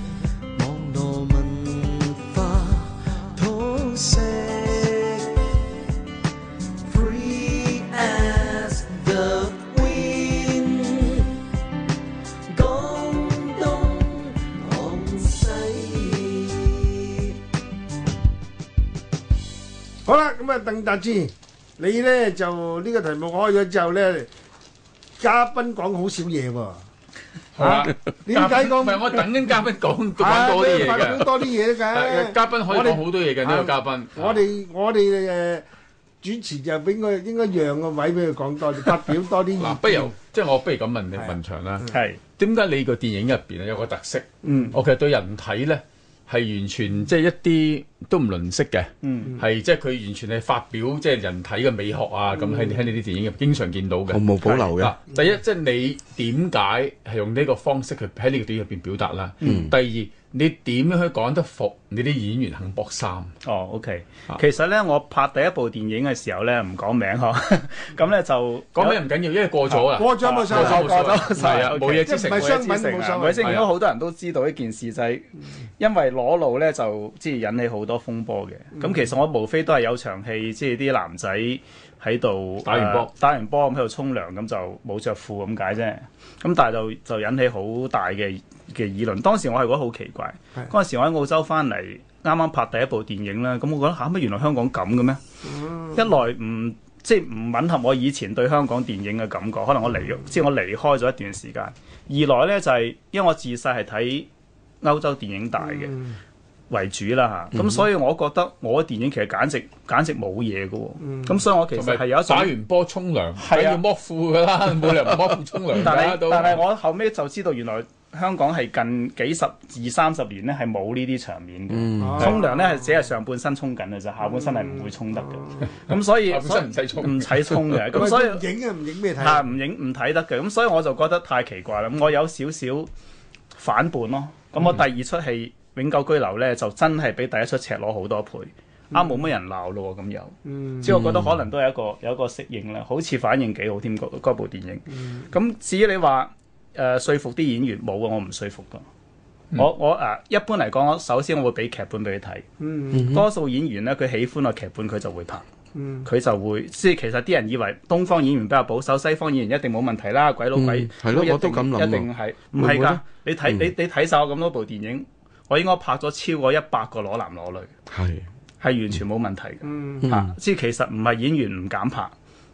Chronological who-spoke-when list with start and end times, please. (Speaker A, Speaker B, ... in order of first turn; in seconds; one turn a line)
Speaker A: 0.6-5.3
Speaker A: 6.8-11.4
Speaker A: 12.5-17.3
Speaker B: 20.0-24.3
Speaker B: 25.2-26.8
Speaker C: 27.6-31.3
Speaker B: 27.6-29.2
Speaker B: 30.2-35.6
Speaker C: 31.9-34.4
Speaker B: 36.2-40.1
Speaker C: 39.5-63.3
Speaker D: 41.9-42.2
Speaker B: 44.4-44.7
Speaker D: 49.0-49.4
Speaker E: 54.1-54.9
Speaker E: 59.4-59.7
Speaker D: 63.4-69.0
Speaker C: 68.7-72.6
Speaker B: 69.7-73.6
Speaker D: 70.2-95.2
Speaker C: 73.4-73.7
Speaker C: 82.6-83.1
Speaker B: 95.4-96.0
Speaker D: 95.9-104.3
Speaker D: 104.8-105.9
Speaker B: 105.6-106.2
Speaker D: 106.7-112.5
Speaker E: 107.5-107.9
Speaker B: 111.0-111.3
Speaker C: 111.7-116.6
Speaker D: 113.4-113.8
Speaker D: 115.8-128.4
Speaker E: 121.7-122.4
Speaker B: 122.0-122.9
Speaker B: 124.2-125.7
Speaker C: 125.9-128.0
Speaker B: 127.9-129.4
Speaker D: 129.2-132.9
Speaker D: 133.5-148.8
Speaker B: 140.5-140.9
Speaker E: 140.9-141.3
Speaker D: 149.6-155.4
Speaker B: 152.6-153.1
Speaker E: 152.9-153.3
Speaker B: 155.8-156.1
Speaker D: 156.0-167.7
Speaker E: 160.5-163.7
Speaker E: 167.9-168.3
Speaker D: 168.6-172.1
Speaker B: 169.6-170.0
Speaker E: 170.0-170.3